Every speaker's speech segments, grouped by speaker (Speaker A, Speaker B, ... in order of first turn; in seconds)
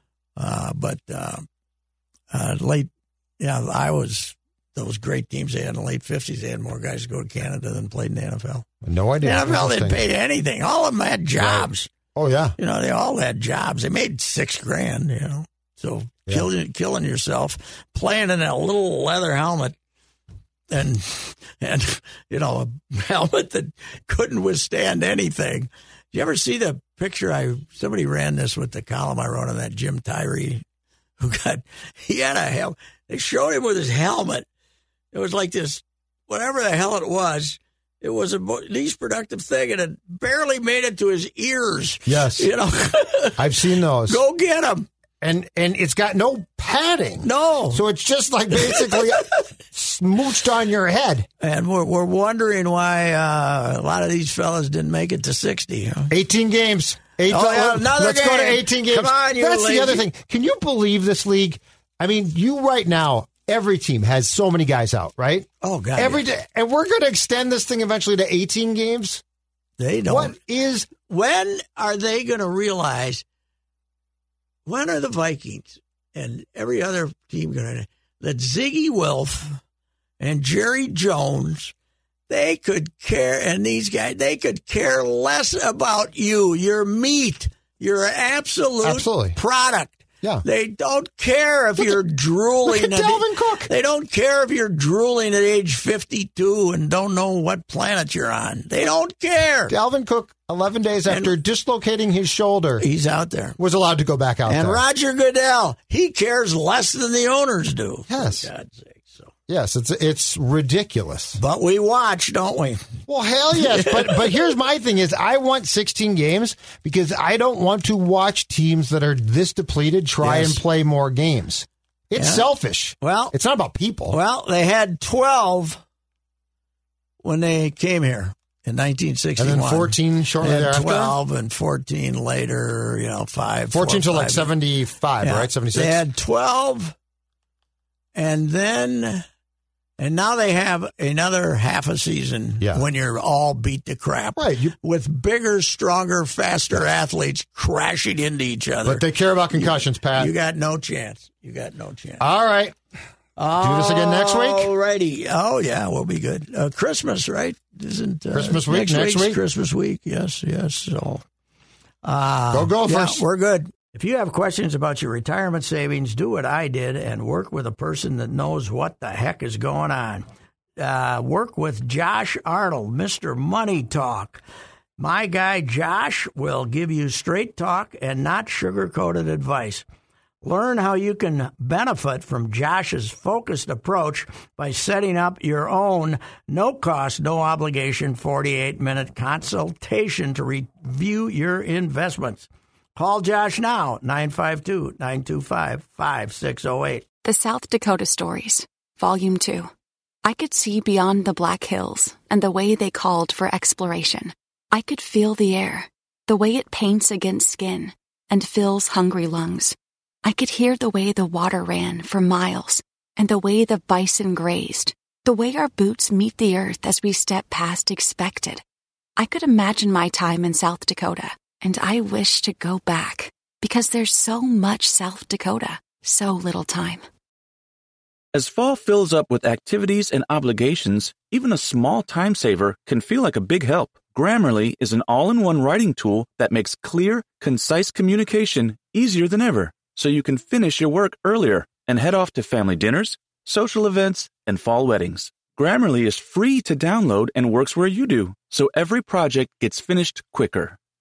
Speaker A: 0.4-1.5, 2.3-8.7, 9.2-11.9, 12.6-19.8, 20.7-30.6, 31.2-34.5, 35.1-44.9, 47.2-47.8, 48.6-49.3, 51.4-56.1, 57.3-60.1, 65.6-66.3, 69.8-70.4, 70.9-73.2, 74.7-79.6, 80.2-81.7, 82.3-99.7, 101.1-101.3, 102.8-103.6, 104.5-109.3, 111.4-112.9, 113.5-114.5, 120.2-120.6, 122.2-123.3, 124.1-125.8, 127.2-134.5, 135.2-136.9, 138.2-139.2, 140.0-152.2, 153.4-161.2, 162.0-170.2, 170.8-174.4, 175.0-179.8, 180.4-197.0
Speaker B: 8.8-10.0, 11.4-12.6, 42.1-42.5, 43.4-44.2, 45.2-51.3, 56.1-69.2, 70.1-70.9, 88.8-89.4, 91.8-92.0, 92.6-93.7, 99.7-102.8, 103.6-104.8, 108.1-108.5, 109.5-111.4, 113.1-124.2, 129.4-131.2, 133.7-136.0, 144.4-144.8, 148.8-150.3, 152.2-152.8, 153.6-154.7, 158.3-159.4, 162.5-163.2
Speaker C: 197.2-199.7, 200.2-218.6, 219.2-227.0
Speaker D: 228.3-250.8